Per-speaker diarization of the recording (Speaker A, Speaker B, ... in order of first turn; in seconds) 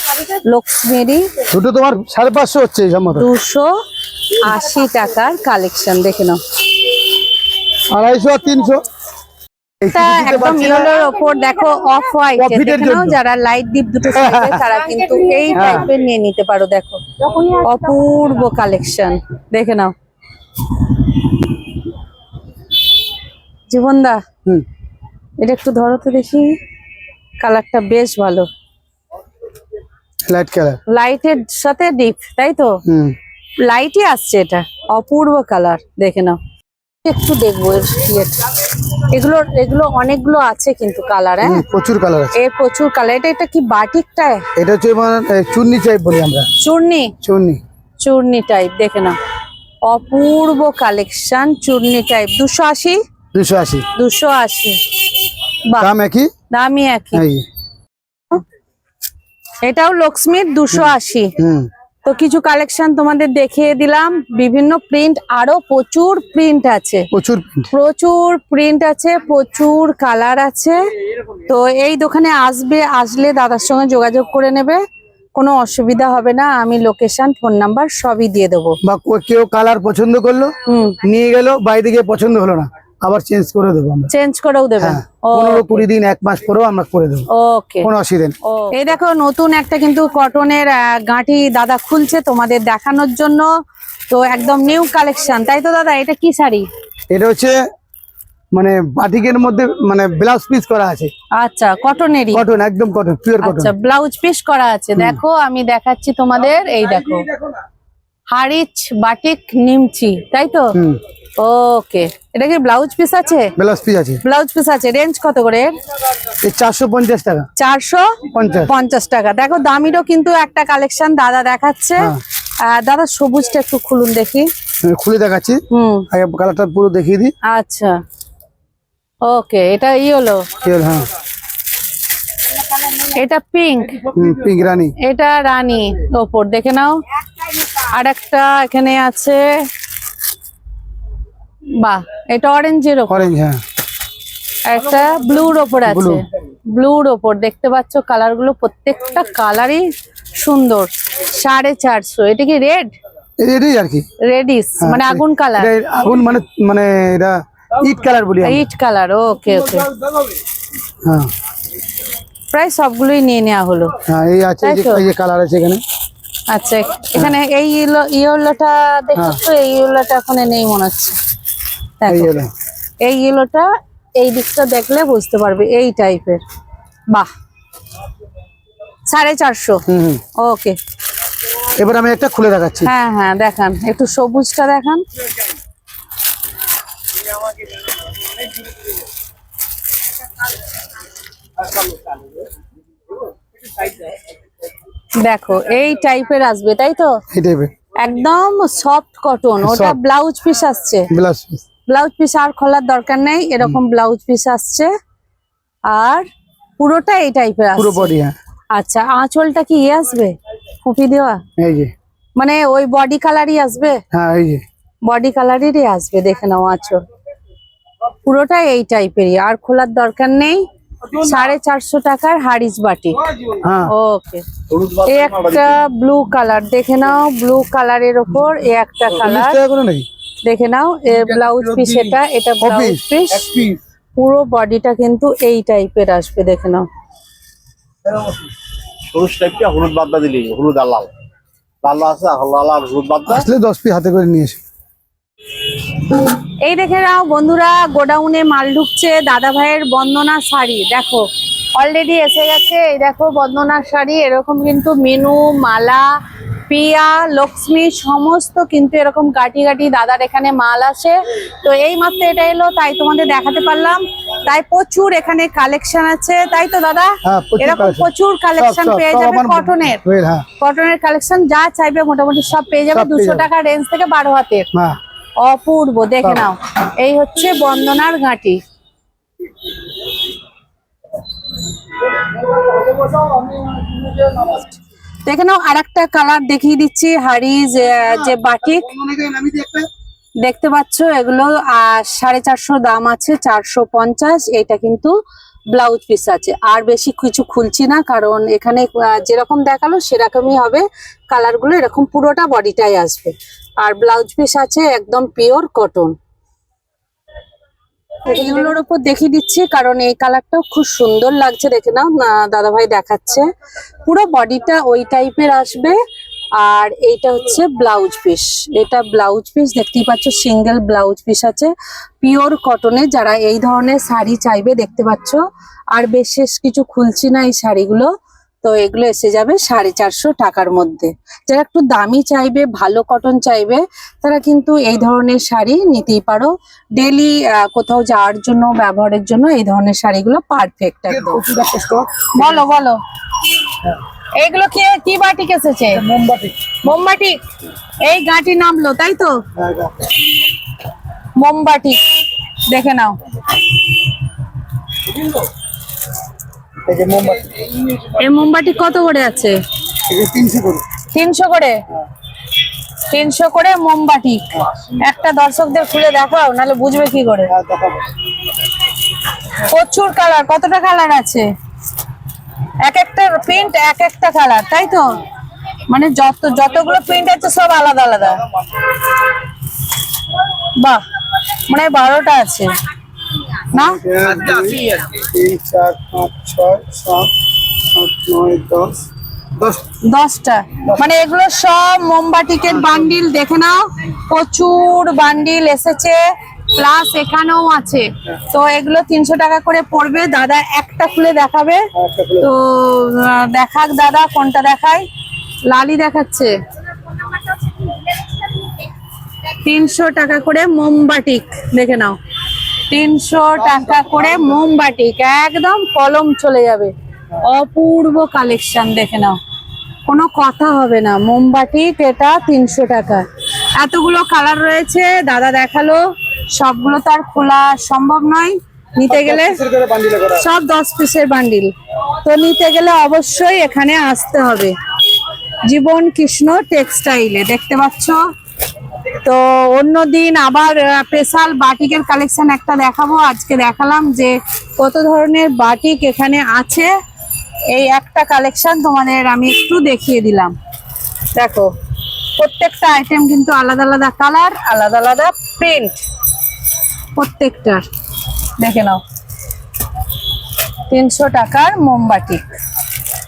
Speaker A: 0.2-1.4, 3.1-3.7, 4.4-6.4, 9.9-19.9, 23.7-24.2, 25.4-26.5, 27.4-28.5, 30.9-32.8, 33.6-36.4, 37.0-41.6, 42.4-44.5, 46.6-47.1, 48.0-49.2, 49.9-53.0, 54.0-54.8, 56.5-57.2, 59.6-61.4, 62.0-67.1, 67.7-70.8, 71.5-74.8, 75.4-78.8, 80.7-81.0, 84.1-85.8, 87.3-87.9, 88.7-93.5, 94.1-96.7, 101.4-102.5, 103.4-107.3, 108.3-110.8, 111.4-113.5, 114.2-115.8, 117.6-124.5, 125.7-126.1, 127.5-128.0, 129.2-130.5, 132.9-134.1, 135.0-139.6, 141.8-143.3, 144.7-152.9, 154.2-155.7, 158.4-159.9, 162.5-164.0, 164.6-165.1, 166.5-171.2, 172.0-172.3, 173.0-176.4, 179.1-179.8, 180.4-180.8, 182.8-185.0, 195.2-197.2, 198.0-201.1, 201.9-204.9, 205.9-206.3, 206.8-208.1, 208.7-211.4, 212.4-214.0, 215.1-217.0, 218.3-223.3, 223.9-224.4, 225.0-229.6, 230.4-233.5, 234.2-236.9, 246.6-256.1, 256.7-270.0, 270.6-274.7, 275.4-278.6, 285.2-288.9, 290.4-295.1, 295.7-306.1, 308.3-313.5, 314.1-316.0, 316.6-325.4, 325.9-328.1, 328.6-341.4, 342.4-343.0, 344.4-346.0, 346.8-347.4, 348.0-349.4, 351.4-352.0, 352.7-353.6, 358.1-359.6, 361.1-361.8, 363.1-367.5, 369.5-371.5, 372.8-375.2, 375.9-378.5, 380.8-382.7, 383.7-384.0, 390.1-396.2, 396.7-401.9, 402.4-405.1, 405.6-406.5, 407.1-408.9, 409.5-412.2, 412.9-419.4, 420.1-429.6, 430.4-431.7, 432.2-434.7, 435.6-438.2, 439.1-446.9, 447.7-450.6, 451.3-451.7, 452.4-455.9, 457.2-457.9, 458.6-459.0, 460.9-462.5
Speaker B: 1.5-3.3, 7.9-8.9, 9.8-10.9, 12.4-13.2, 14.1-14.6, 15.5-15.9, 30.3-30.8, 32.9-33.1, 41.4-42.4, 44.6-46.5, 47.2-47.6, 53.3-53.9, 55.8-56.3, 57.1-57.5, 60.7-61.7, 67.1-67.7, 78.8-84.1, 84.8-87.3, 87.8-88.4, 97.1-97.6, 98.5-101.1, 102.3-103.7, 113.6-114.2, 116.4-117.5, 118.3-118.7, 124.8-127.3, 130.6-131.1, 134.1-134.9, 143.1-143.6, 145.8-146.2, 153.4-154.1, 154.8-158.7, 161.1-161.3, 164.1-165.8, 172.1-172.5, 179.9-180.2, 181.7-182.9, 197.3-197.7, 199.6-200.0, 201.1-201.6, 207.8-208.4, 211.6-211.9, 214.1-214.6, 223.6-223.9, 229.1-230.1, 231.2-233.8, 243.3-244.6, 267.2-270.5, 272.9-273.5, 282.8-284.7, 288.1-289.9, 341.1-342.6, 345.9-346.8, 349.6-350.1, 356.9-357.8, 360.1-360.8, 367.5-368.1, 383.7-389.1, 389.6-389.8, 402.0-402.5, 413.7-414.5, 429.1-430.4
Speaker C: 224.7-225.7, 239.1-241.1, 241.8-243.4